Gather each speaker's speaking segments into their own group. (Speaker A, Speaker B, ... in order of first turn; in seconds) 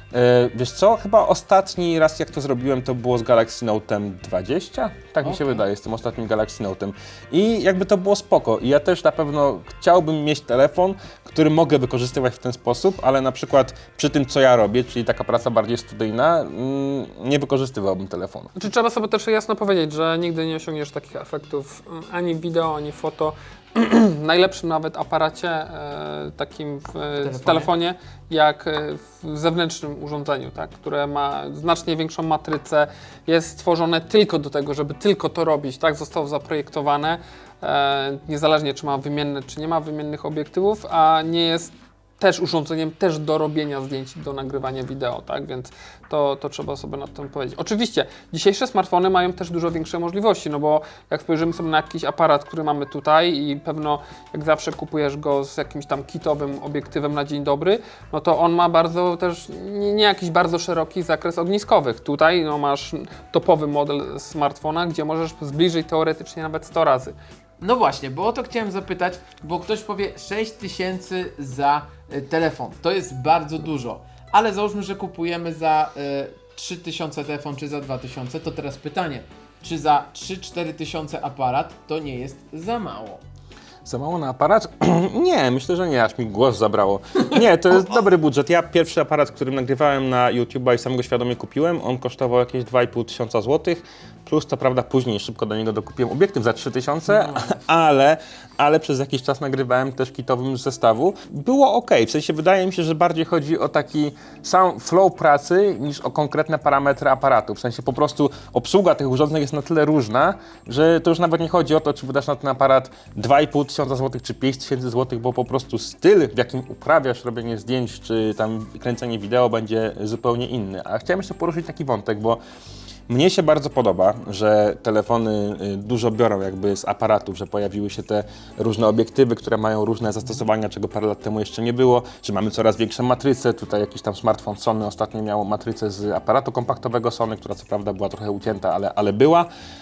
Speaker A: 0.1-18.5, 83.8-122.4, 123.1-139.5
Speaker B: 5.2-5.6, 27.2-27.7, 67.6-83.2, 97.2-97.5
Speaker C: 18.6-67.2